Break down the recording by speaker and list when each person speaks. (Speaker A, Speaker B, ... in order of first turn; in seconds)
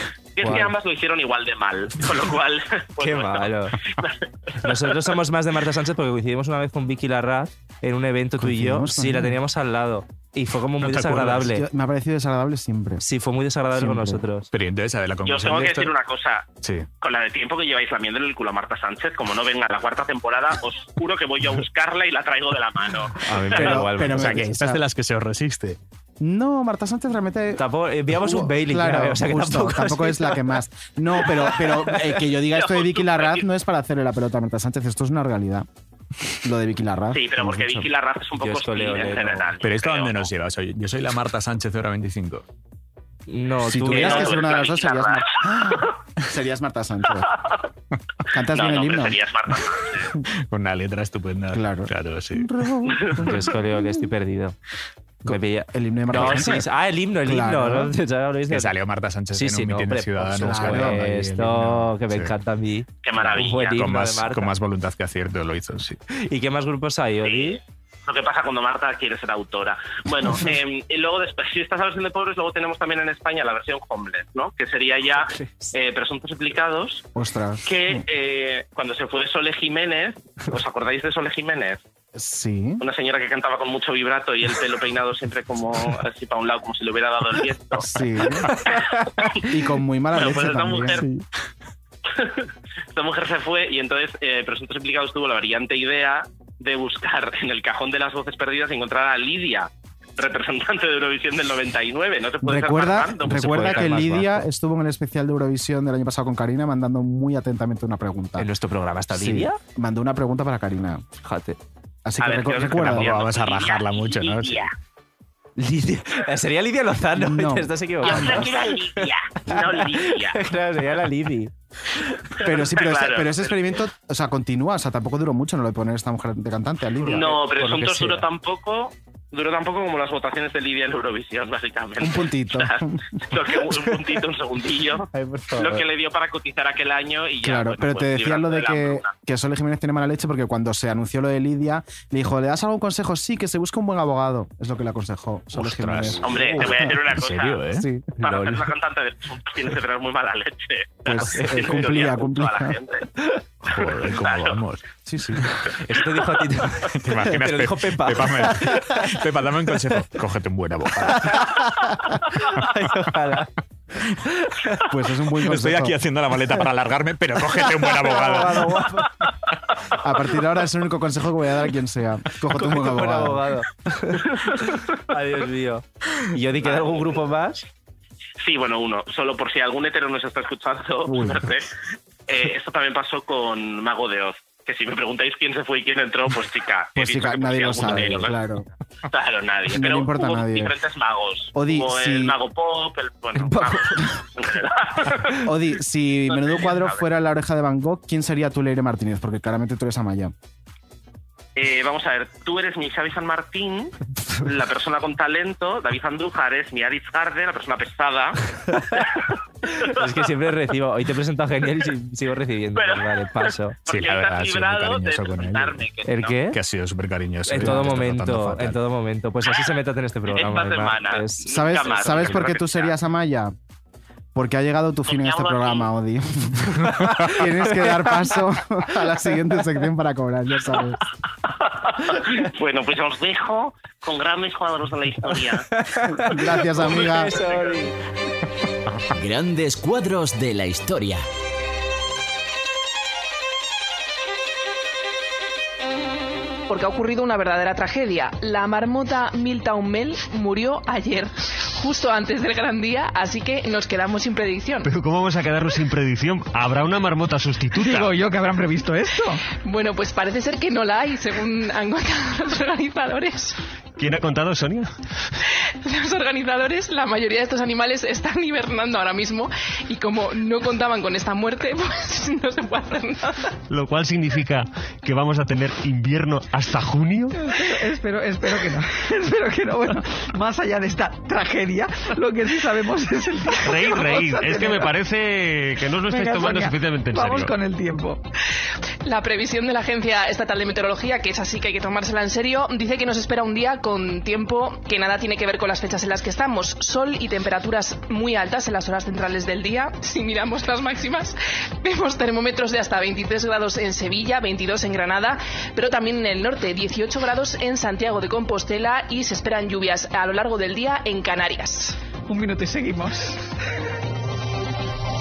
Speaker A: 0.3-5.0, 15.2-16.4, 17.0-23.8, 32.5-33.5, 37.1-40.3, 43.9-45.9, 48.5-50.2, 63.0-63.8, 67.2-77.0, 77.6-81.8, 82.8-87.9, 88.5-89.5, 90.1-91.0, 92.2-103.9, 112.2-114.7, 118.0-120.4, 122.7-123.6, 127.0-139.1, 146.2-147.7, 148.2-153.1, 153.7-154.6, 176.6-177.2, 178.4-181.7, 182.3-188.4, 189.1-195.5, 196.3-197.0, 201.6-209.0, 209.8-210.1, 212.8-216.4, 220.3-222.9, 225.1-225.9, 231.6-235.7, 237.4-237.8
Speaker B: 0.4-0.7, 3.0-3.8, 4.6-11.7, 13.0-14.5, 23.2-24.4, 27.6-30.4, 31.2-32.0, 38.4-39.5, 43.3-44.4, 53.1-54.5, 55.2-58.7, 59.3-64.5, 66.1-67.6, 75.3-75.7, 103.2-104.4, 108.4-109.6, 111.2-111.6, 115.6-122.5, 127.0-128.2, 135.1-135.8, 148.2-148.7, 151.2-151.9, 155.8-159.1, 161.2-163.5, 164.3-164.8, 167.9-169.2, 172.5-177.7, 187.9-188.2, 193.3-194.2, 209.7-213.8, 216.1-216.6, 217.4-221.5, 226.9-228.3, 235.6-237.9
Speaker C: 8.4-9.4, 11.5-13.0, 13.7-14.2, 23.6-24.8, 26.2-35.7, 36.4-37.9, 43.6-47.3, 48.3-49.2, 51.5-53.6, 55.3-56.7, 57.2-57.9, 60.4-61.0, 77.1-78.0, 82.1-82.8, 87.8-88.5, 89.3-91.1, 102.4-108.5, 109.1-111.0, 112.0-113.1, 117.1-118.5, 122.4-127.4, 132.0-133.1, 137.4-147.0, 147.7-148.2, 151.0-152.8, 155.1-155.4, 164.8-166.0, 170.0-173.4, 181.1-181.5, 186.9-188.7, 189.7-190.7, 191.5-192.3, 195.4-200.3, 217.6-217.9, 221.5-223.5, 224.3-231.0, 236.2-237.4
Speaker D: 10.8-11.5, 14.5-15.9, 16.6-16.9, 24.0-25.8, 39.6-42.4, 50.3-52.5, 58.5-62.3, 63.8-66.0, 112.8-114.7, 145.5-147.9, 153.7-154.8, 156.9-161.5, 165.4-168.9, 213.9-215.8, 216.5-218.8
Speaker E: 239.1-241.2
Speaker F: 246.7-254.9, 259.6-263.6, 265.8-273.6, 289.0-312.0
Speaker G: 254.8-258.2, 264.0-264.9, 273.7-277.4, 283.6-287.5
Speaker H: 257.8-259.4, 277.4-284.9, 286.0-288.2, 312.3-313.4